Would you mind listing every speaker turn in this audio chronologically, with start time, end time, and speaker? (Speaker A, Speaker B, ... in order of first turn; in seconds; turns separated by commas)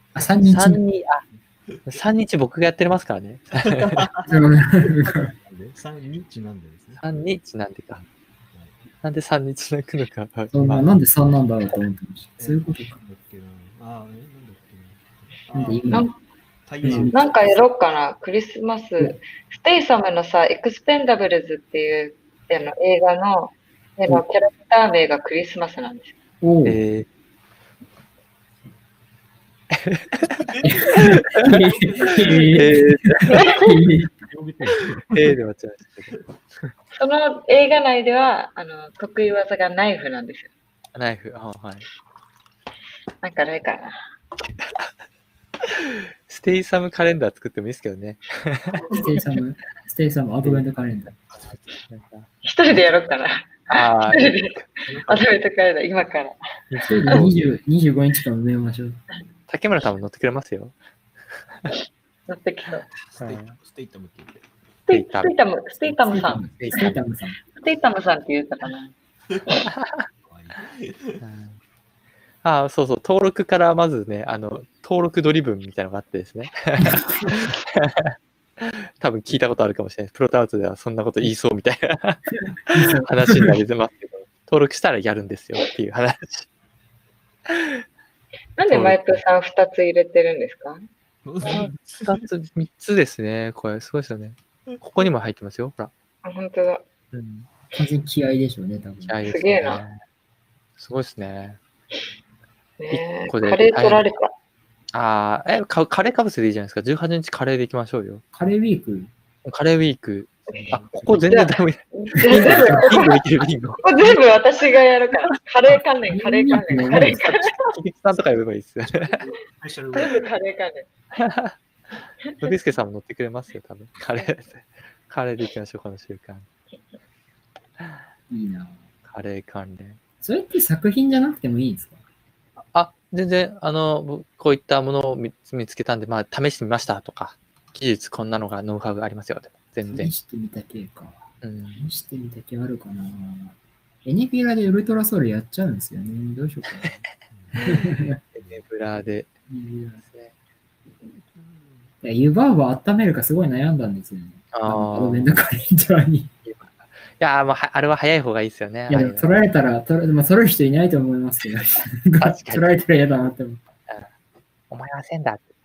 Speaker A: 0.1-0.8, Speaker B: 0.4-1.2, Speaker C: 1.3-2.0, Speaker B: 1.9-4.1, Speaker C: 3.5-7.0, Speaker A: 4.2-5.3, Speaker B: 7.0-8.0, Speaker C: 8.0-8.8, Speaker B: 9.0-10.9, Speaker A: 10.5-13.0, Speaker C: 12.4-16.1, Speaker A: 15.5-16.1, Speaker D: 15.9-16.1, Speaker C: 16.6-17.6, Speaker A: 16.8-17.3, Speaker D: 17.1-26.1, Speaker A: 26.4-26.8, Speaker B: 26.6-27.1, Speaker B: 29.7-31.3, Speaker C: 30.3-32.7, Speaker A: 30.6-34.1, Speaker B: 32.4-33.5, Speaker D: 33.3-33.7, Speaker C: 34.2-35.2, Speaker B: 35.1-36.7, Speaker D: 37.0-40.5, Speaker B: 40.9-41.8, Speaker D: 43.2-44.0, Speaker B: 45.7-48.9, Speaker A: 48.9-51.1, Speaker C: 51.3-51.6, Speaker B: 51.9-52.3, Speaker D: 52.4-56.3, Speaker B: 53.7-54.6, Speaker C: 54.9-55.4, Speaker B: 56.7-57.4, Speaker A: 56.9-59.0, Speaker B: 59.5-60.7, Speaker D: 62.3-62.9, Speaker C: 63.0-64.5, Speaker B: 63.2-63.6, Speaker D: 64.9-66.6, Speaker B: 64.9-65.3, Speaker A: 66.0-67.4, Speaker B: 66.6-67.0, Speaker D: 67.5-68.9, Speaker B: 69.8-70.0, Speaker C: 70.2-71.2, Speaker B: 71.2-71.5, Speaker B: 72.4-86.5, Speaker A: 76.8-77.4, Speaker A: 82.7-83.5, Speaker B: 87.5-87.8, Speaker D: 88.6-90.8, Speaker B: 88.7-89.2, Speaker C: 91.2-92.3, Speaker B: 91.5-95.9, Speaker D: 96.2-96.8, Speaker B: 97.1-97.5, Speaker A: 97.7-99.2, Speaker B: 99.0-100.0, Speaker D: 99.2-99.8, Speaker B: 100.8-101.6, Speaker D: 102.8-104.3, Speaker B: 102.9-104.0, Speaker B: 104.9-108.2, Speaker A: 108.3-109.1, Speaker B: 109.4-114.2, Speaker A: 110.5-111.3, Speaker C: 110.7-110.9, Speaker D: 111.3-113.3, Speaker A: 112.2-113.1, Speaker D: 113.8-117.6, Speaker A: 116.1-117.2, Speaker B: 117.2-119.2, Speaker C: 119.0-120.3, Speaker D: 119.9-120.8, Speaker B: 121.2-121.5, Speaker B: 122.4-126.5, Speaker A: 128.3-128.8, Speaker B: 129.1-130.0, Speaker A: 130.2-132.0, Speaker B: 132.6-140.1, Speaker A: 139.9-147.0, Speaker B: 141.4-141.9, Speaker C: 147.3-149.0, Speaker A: 147.6-148.2, Speaker B: 148.3-149.3, Speaker A: 149.5-150.0, Speaker B: 150.1-150.3, Speaker C: 151.3-151.9, Speaker A: 152.0-156.3, Speaker B: 154.5-155.3, Speaker B: 156.4-159.3, Speaker A: 158.9-163.6, Speaker B: 162.2-162.7, Speaker B: 164.7-165.5